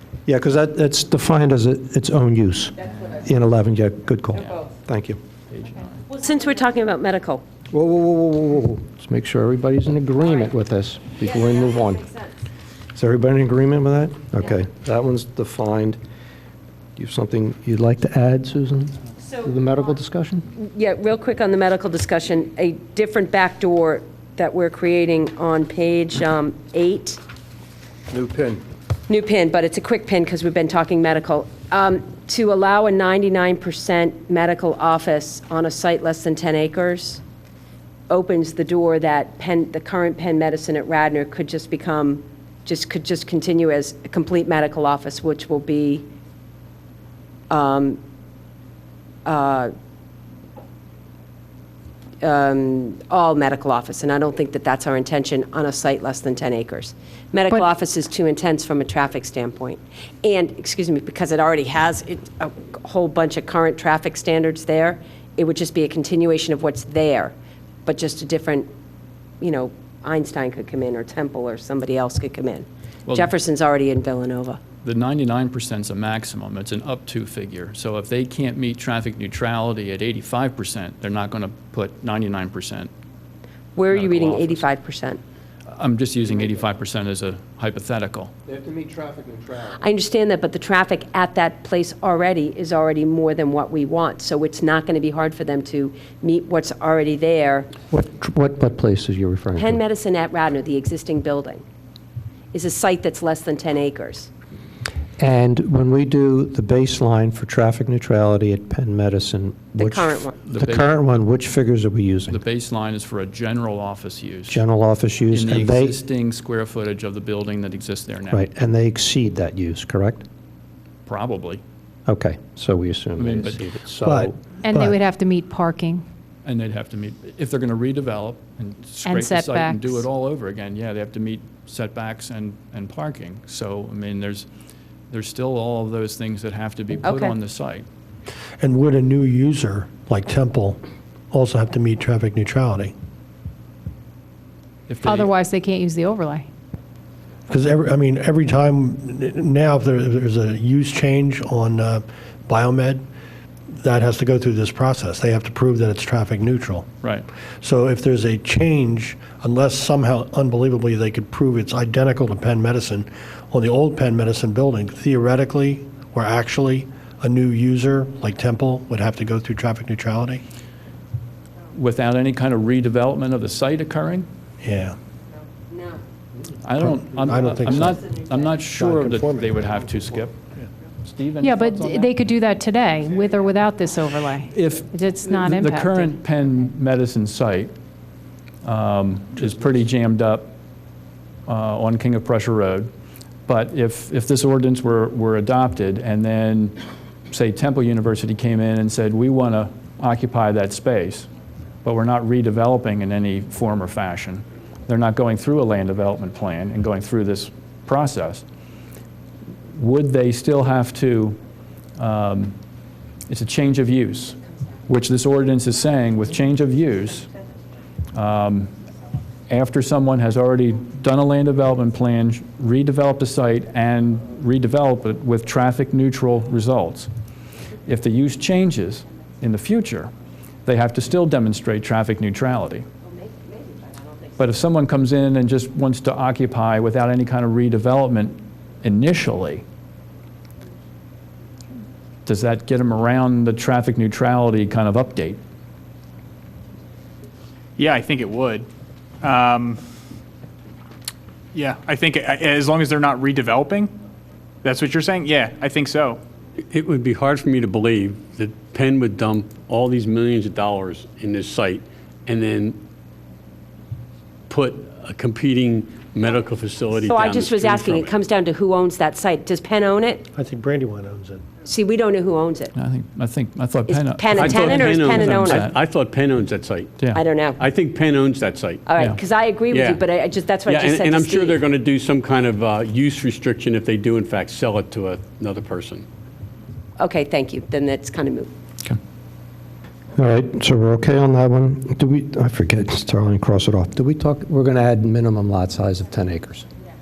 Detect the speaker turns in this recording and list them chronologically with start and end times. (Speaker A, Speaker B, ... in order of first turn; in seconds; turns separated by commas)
Speaker A: 0.2-5.2, Speaker B: 5.5-6.0, Speaker C: 6.1-7.4, Speaker A: 7.7-12.1, Speaker C: 11.4-12.3, Speaker A: 12.9-16.0, Speaker A: 17.0-20.4, Speaker C: 20.6-27.2, Speaker A: 28.1-28.6, Speaker C: 29.1-37.2, Speaker C: 38.1-46.0, Speaker C: 47.5-48.0, Speaker C: 49.2-49.7, Speaker C: 52.2-67.3, Speaker C: 67.8-68.7, Speaker C: 69.4-74.6, Speaker B: 74.8-82.9, Speaker C: 83.7-85.2, Speaker B: 83.9-84.6, Speaker B: 85.7-88.3, Speaker A: 88.5-89.8, Speaker C: 89.7-97.7, Speaker A: 97.9-99.8, Speaker C: 99.5-101.6, Speaker C: 102.5-104.3, Speaker A: 105.2-112.4, Speaker C: 109.8-110.3, Speaker B: 110.5-111.0, Speaker B: 112.3-114.6, Speaker A: 114.5-116.0, Speaker B: 115.3-118.5, Speaker A: 118.3-120.2, Speaker B: 121.0-121.6, Speaker A: 122.1-124.3, Speaker B: 123.2-123.7, Speaker D: 124.0-125.0, Speaker E: 124.6-126.0, Speaker B: 126.4-134.5, Speaker E: 129.0-130.0, Speaker B: 135.1-137.8, Speaker C: 137.0-137.3, Speaker D: 138.6-142.9, Speaker B: 144.9-145.3, Speaker E: 145.0-146.5, Speaker D: 147.5-153.0, Speaker D: 153.8-156.9, Speaker D: 157.6-170.4, Speaker B: 171.7-174.3, Speaker D: 174.6-175.0, Speaker C: 175.7-176.0, Speaker B: 176.6-180.3, Speaker D: 176.8-178.1, Speaker D: 178.7-179.6, Speaker B: 181.0-182.1, Speaker E: 181.4-186.1, Speaker B: 184.5-187.7, Speaker B: 188.6-190.5, Speaker B: 191.5-192.9, Speaker B: 193.5-196.8, Speaker B: 197.3-201.3, Speaker B: 201.8-208.4, Speaker B: 209.7-211.4, Speaker B: 212.0-212.6, Speaker B: 213.3-214.3, Speaker B: 214.9-217.3, Speaker B: 218.1-218.7, Speaker B: 219.5-227.1, Speaker B: 227.8-230.1, Speaker B: 230.7-232.8, Speaker C: 233.0-234.4, Speaker B: 234.4-239.6, Speaker B: 242.2-245.4, Speaker F: 247.8-248.7, Speaker F: 249.2-249.8, Speaker F: 251.5-253.9, Speaker F: 254.6-256.2, Speaker G: 256.7-262.8, Speaker G: 264.5-268.2, Speaker C: 267.1-270.3, Speaker D: 270.3-271.6, Speaker C: 271.6-272.7, Speaker B: 272.7-275.8, Speaker C: 273.9-275.6, Speaker G: 274.3-277.0, Speaker C: 277.1-277.6, Speaker G: 277.6-278.9, Speaker C: 278.9-281.6, Speaker G: 279.7-280.0, Speaker G: 280.6-286.0, Speaker C: 287.0-288.5, Speaker A: 290.1-296.6